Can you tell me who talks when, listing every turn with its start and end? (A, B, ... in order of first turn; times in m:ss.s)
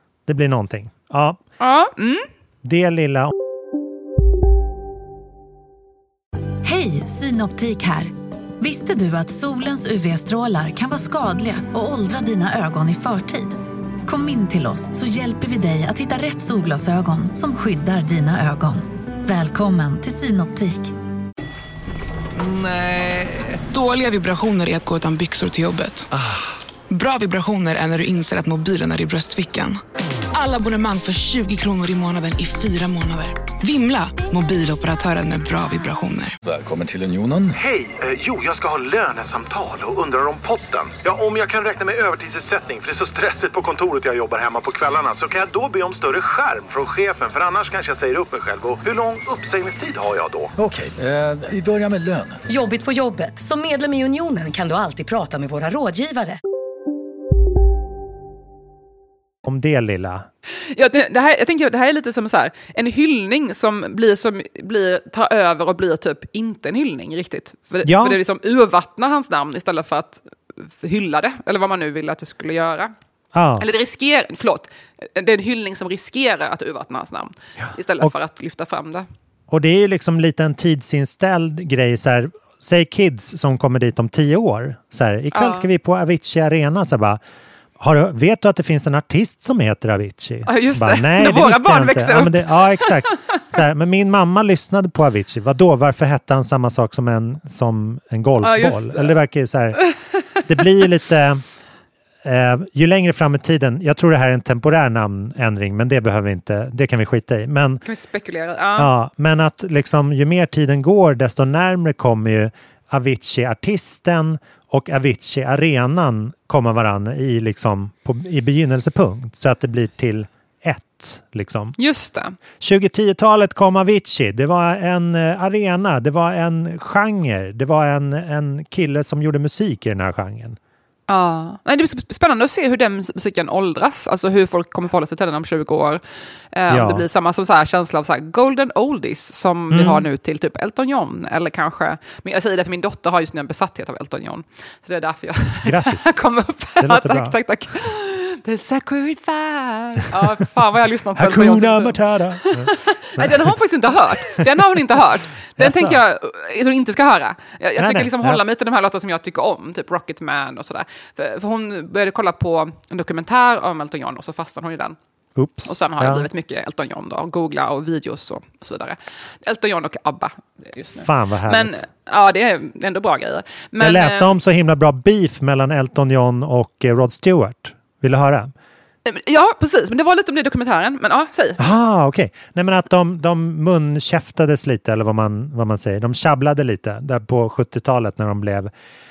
0:00.3-0:01.4 A
0:01.6-0:02.3 B
0:02.6-0:03.3 A
0:06.6-0:20.9 C
0:22.3-0:26.1 D
0:26.9-0:29.8 D
0:30.3-0:36.4 D
0:36.4-0:37.6 E
0:37.6-0:50.5 F
0:50.6-0:52.4 E
0:52.5-0:56.3 G
0:59.4-1:00.3 A
1:00.7-1:12.9 B
1:07.8-1:08.2 A
1:13.3-1:13.6 A
1:13.6-1:19.0 B
1:19.5-1:27.2 A
1:25.3-1:25.7 B
1:27.8-1:39.8 A
1:30.4-1:33.1 B
1:38.4-1:39.2 B
1:39.8-1:40.4 B
1:40.4-1:41.4 A
1:42.2-1:47.8 A
1:47.8-1:48.9 B
1:48.8-2:01.7 A
2:01.8-2:02.4 B
2:02.6-2:10.6 A
2:11.1-2:16.0 B
2:16.5-2:45.0 B
2:16.7-2:17.0 A
2:19.7-2:20.0 A
2:25.6-2:26.1 A
2:26.8-2:27.4 A
2:31.1-2:33.5 A
2:35.6-2:36.0 A
2:37.8-2:38.4 A
2:45.4-2:46.3 A
2:45.6-2:54.3 B
2:51.0-2:51.8 A
2:53.8-2:58.5 A
2:59.0-3:01.6 B
3:01.6-3:08.7 A